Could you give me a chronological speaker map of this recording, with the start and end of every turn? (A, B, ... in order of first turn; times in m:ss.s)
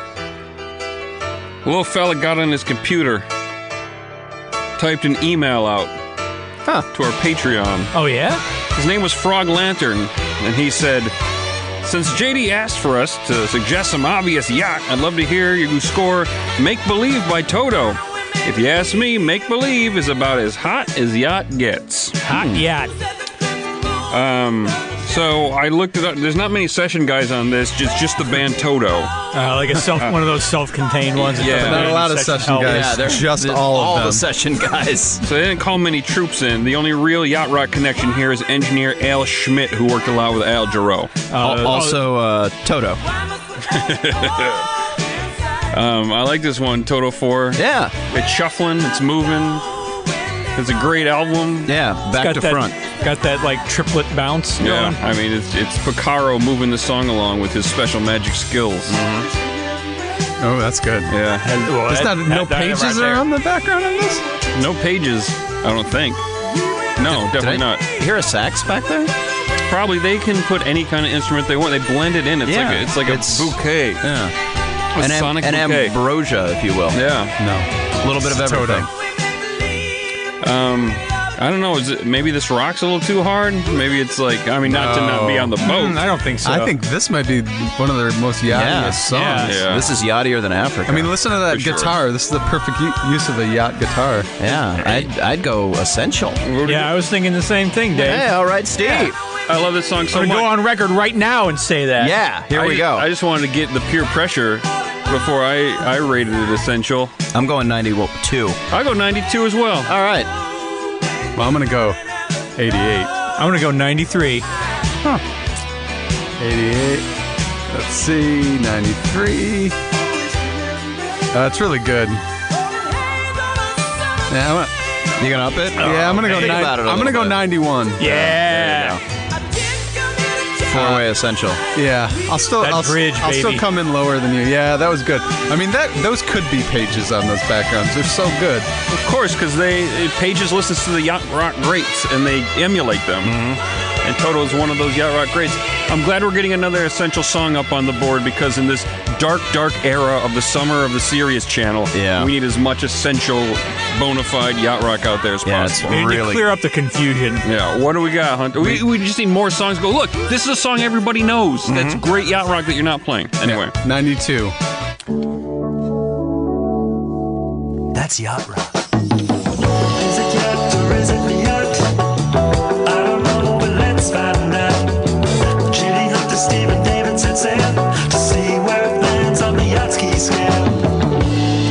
0:01.6-0:03.2 A
0:04.8-0:05.9 A
0:06.9-0:07.9 A
0:07.9-0:08.4 B
0:08.7-0:11.1 A
0:11.8-0:22.2 A
0:22.2-0:22.9 B
0:24.1-0:29.1 A
0:29.3-0:32.9 B
0:29.9-0:30.3 A
0:31.2-0:32.0 A
0:31.5-0:34.2 C
0:32.6-0:35.2 D
0:35.2-0:41.2 A
0:41.3-0:42.0 B
0:41.4-0:43.0 D
0:43.6-0:44.7 A
0:45.7-0:49.6 A
0:47.6-0:47.9 D
0:50.5-0:51.7 A
0:51.6-0:52.7 D
0:52.2-0:55.0 B
0:54.6-0:59.0 A
0:58.9-0:59.3 D
1:00.4-1:01.1 C
1:01.1-1:01.6 A
1:01.4-1:03.2 B
1:01.7-1:04.2 C
1:04.5-1:06.2 A
1:07.0-1:07.8 A
1:07.0-1:09.1 D
1:09.6-1:14.0 A
1:12.4-1:14.3 D
1:14.9-1:16.0 A
1:15.0-1:17.0 D
1:16.9-1:17.3 A
1:17.4-1:18.9 C
1:18.0-1:18.9 D
1:20.4-1:26.0 A
1:24.6-1:25.6 C
1:24.9-1:26.7 B
1:26.4-1:29.7 C
1:28.5-1:31.1 D
1:29.1-1:29.5 B
1:29.4-1:29.9 A
1:30.8-1:34.3 C
1:31.5-1:32.0 A
1:34.4-1:36.4 D
1:34.5-1:35.1 A
1:36.4-1:37.0 A
1:36.6-1:39.1 B
1:37.9-1:39.2 D
1:39.5-1:40.5 A
1:40.1-1:42.2 B
1:42.0-1:43.1 D
1:42.5-1:47.1 A
1:47.3-1:48.6 D
1:48.7-1:49.9 A
1:49.8-1:50.3 D
1:51.4-1:52.0 C
1:52.6-1:53.1 C
1:53.4-1:54.4 B
1:56.4-1:57.1 C
1:57.7-1:59.8 C
2:01.3-2:02.2 C
2:04.3-2:04.7 C
2:05.2-2:07.4 D
2:05.8-2:08.2 C
2:06.3-2:06.6 B
2:08.0-2:09.0 D
2:08.0-2:09.0 B
2:10.6-2:11.6 D
2:10.7-2:11.1 C
2:11.7-2:18.7 C
2:12.6-2:13.6 B
2:18.9-2:23.4 A
2:23.2-2:23.6 D
2:24.0-2:36.1 A
2:31.9-2:32.3 D
2:35.4-2:36.4 D
2:35.9-2:37.4 B
2:37.4-2:43.7 A
2:41.7-2:42.0 D
2:43.4-2:44.5 C
2:47.9-2:48.9 E
2:49.8-2:51.9 E
2:52.8-3:01.0 E